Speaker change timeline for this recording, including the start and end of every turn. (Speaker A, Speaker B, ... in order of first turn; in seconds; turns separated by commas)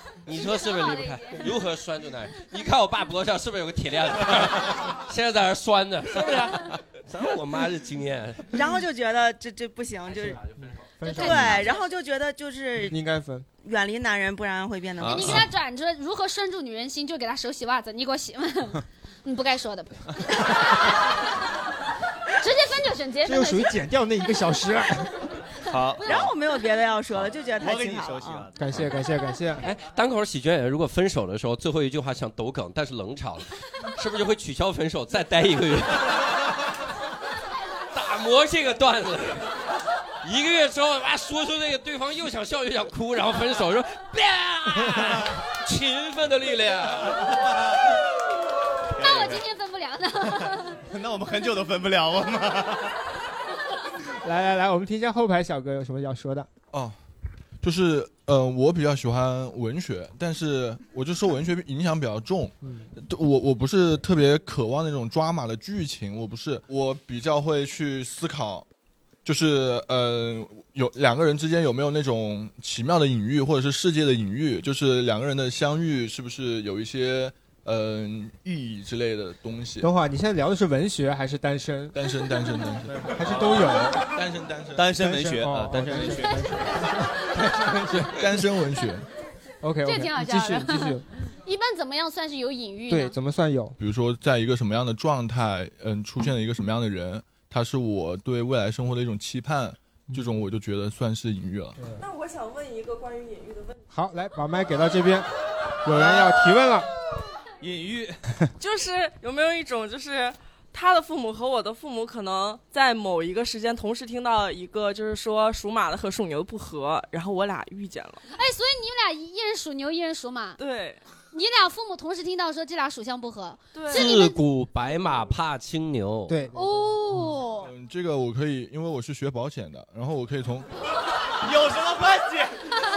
Speaker A: 0.3-8.6, Speaker B: 0.4-1.5, Speaker C: 8.5-10.4, Speaker D: 11.0-11.6, Speaker B: 11.1-11.6, Speaker C: 11.1-13.0, Speaker D: 12.9-13.5, Speaker C: 13.6-15.4, Speaker E: 15.0-15.5, Speaker B: 15.1-20.9, Speaker B: 22.4-23.7, Speaker D: 23.2-25.2, Speaker E: 25.7-26.3, Speaker C: 26.0-28.5, Speaker E: 27.1-28.9, Speaker D: 28.6-29.7, Speaker A: 29.6-36.1, Speaker A: 37.9-39.5, Speaker A: 40.2-47.3, Speaker B: 49.0-50.8, Speaker E: 49.0-49.4, Speaker E: 50.9-52.9, Speaker D: 54.2-56.5, Speaker F: 57.6-68.7, Speaker D: 62.6-62.9, Speaker F: 69.2-79.9, Speaker D: 79.8-81.9, Speaker F: 81.9-84.8, Speaker E: 82.9-83.8, Speaker D: 83.0-84.0, Speaker E: 84.8-86.5, Speaker D: 85.0-87.6, Speaker E: 87.5-88.1, Speaker F: 88.2-89.0, Speaker D: 89.6-91.0, Speaker B: 89.8-93.1, Speaker D: 92.9-93.8, Speaker F: 93.8-101.8, Speaker G: 102.0-103.8, Speaker D: 103.9-105.3, Speaker D: 105.8-106.9, Speaker E: 106.0-106.2, Speaker E: 107.6-108.1, Speaker G: 108.6-118.2, Speaker B: 118.3-120.6, Speaker G: 120.6-121.0, Speaker B: 121.3-124.4, Speaker G: 123.7-124.1, Speaker A: 123.9-126.4, Speaker D: 126.3-127.0, Speaker B: 126.5-127.7, Speaker F: 127.6-130.7, Speaker E: 131.4-132.5